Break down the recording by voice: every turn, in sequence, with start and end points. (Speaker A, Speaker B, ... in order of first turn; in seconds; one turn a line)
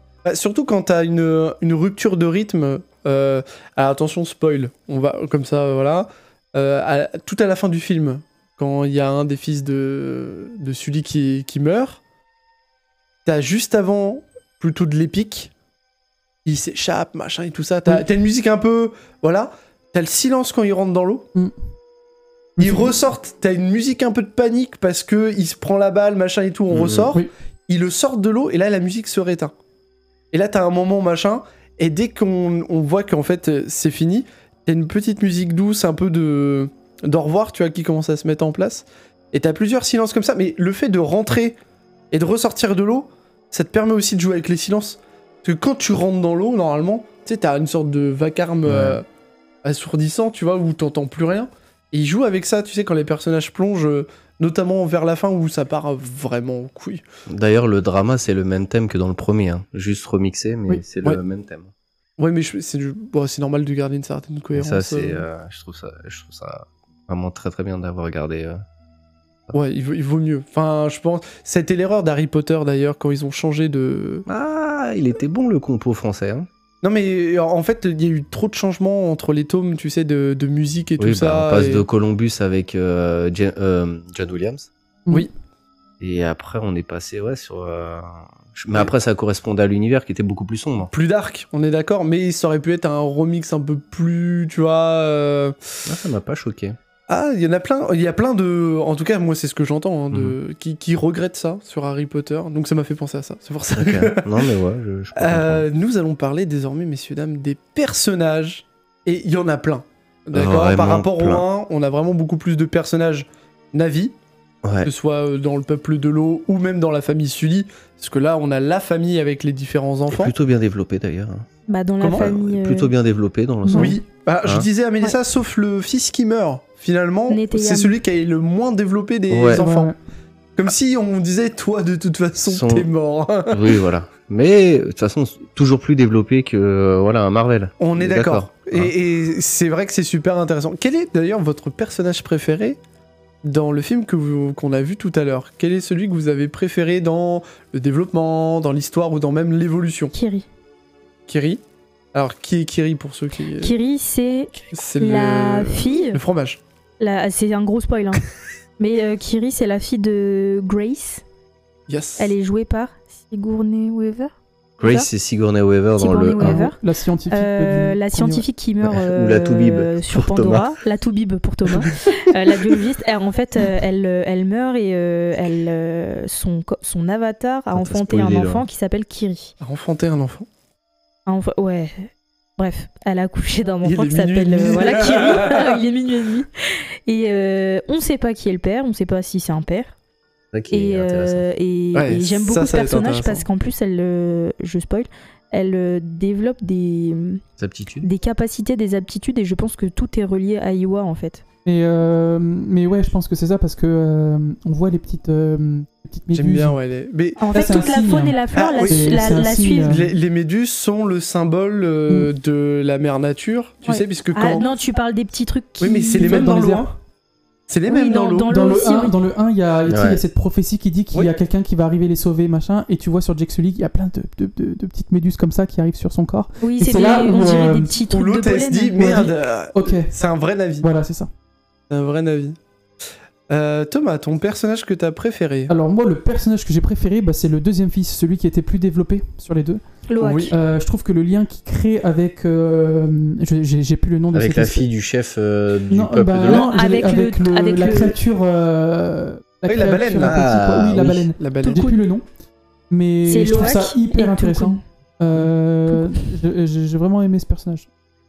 Speaker A: 0.2-12.0
Speaker A: 13.2-15.5
Speaker A: 16.4-21.3
Speaker B: 22.6-22.9
Speaker A: 22.6-29.5
Speaker C: 26.7-27.1
Speaker A: 30.3-41.6
Speaker A: 42.1-49.0
Speaker C: 48.7-49.0
Speaker A: 49.6-57.0
Speaker C: 57.3-61.7
Speaker A: 62.2-65.3
Speaker C: 64.5-68.6
Speaker A: 69.5-74.2
Speaker C: 74.3-76.5
Speaker A: 76.8-81.8
Speaker C: 81.0-84.7
Speaker C: 86.0-90.9
Speaker A: 90.9-95.6
Speaker C: 95.9-96.8
Speaker A: 97.1-104.3
Speaker C: 100.1-100.4
Speaker C: 103.8-105.7
Speaker A: 105.2-114.2
Speaker C: 110.3-111.5
Speaker C: 114.6-114.9
Speaker A: 114.8-120.3
Speaker C: 120.1-121.5
Speaker D: 121.7-122.9
Speaker A: 122.0-122.3
Speaker C: 122.1-124.7
Speaker B: 123.7-124.0
Speaker A: 123.7-129.9
Speaker D: 127.3-127.9
Speaker C: 129.3-129.6
Speaker B: 129.5-129.9
Speaker A: 130.6-133.6
Speaker C: 132.4-132.9
Speaker C: 133.5-138.9
Speaker A: 137.8-142.8
Speaker A: 143.4-150.1
Speaker D: 150.1-150.5
Speaker A: 151.3-151.6
Speaker A: 152.1-153.7
Speaker D: 153.6-156.2
Speaker A: 154.7-156.6
Speaker D: 157.0-158.3
Speaker D: 158.8-161.2
Speaker A: 161.9-162.3
Speaker D: 162.2-165.1
Speaker C: 164.8-166.7
Speaker D: 166.0-179.5
Speaker B: 166.4-168.4
Speaker C: 168.8-170.7
Speaker C: 177.7-178.7
Speaker A: 179.6-180.5
Speaker D: 181.3-189.9
Speaker A: 183.8-185.8
Speaker C: 190.5-191.4
Speaker D: 190.7-197.4
Speaker A: 191.9-193.4
Speaker C: 197.6-198.1
Speaker D: 198.0-201.4
Speaker B: 201.7-206.8
Speaker A: 206.3-207.9
Speaker D: 207.4-210.0
Speaker B: 207.5-210.1
Speaker A: 208.5-214.7
Speaker D: 213.8-216.4
Speaker A: 215.8-216.9
Speaker B: 216.2-216.9
Speaker A: 217.7-218.5
Speaker D: 217.9-219.1
Speaker B: 218.5-227.9
Speaker C: 219.9-220.2
Speaker D: 226.6-229.3
Speaker A: 228.1-230.9
Speaker B: 229.0-230.1
Speaker B: 230.8-231.3
Speaker A: 231.9-232.6
Speaker A: 233.5-235.7
Speaker B: 235.7-239.8
Speaker D: 240.1-240.5
Speaker A: 240.2-240.6
Speaker B: 240.5-244.8
Speaker C: 244.3-246.7
Speaker B: 245.9-252.2
Speaker D: 246.4-248.2
Speaker A: 249.7-250.5
Speaker C: 250.2-251.3
Speaker A: 251.4-251.9
Speaker B: 252.9-257.9
Speaker D: 253.3-254.8
Speaker D: 255.9-256.2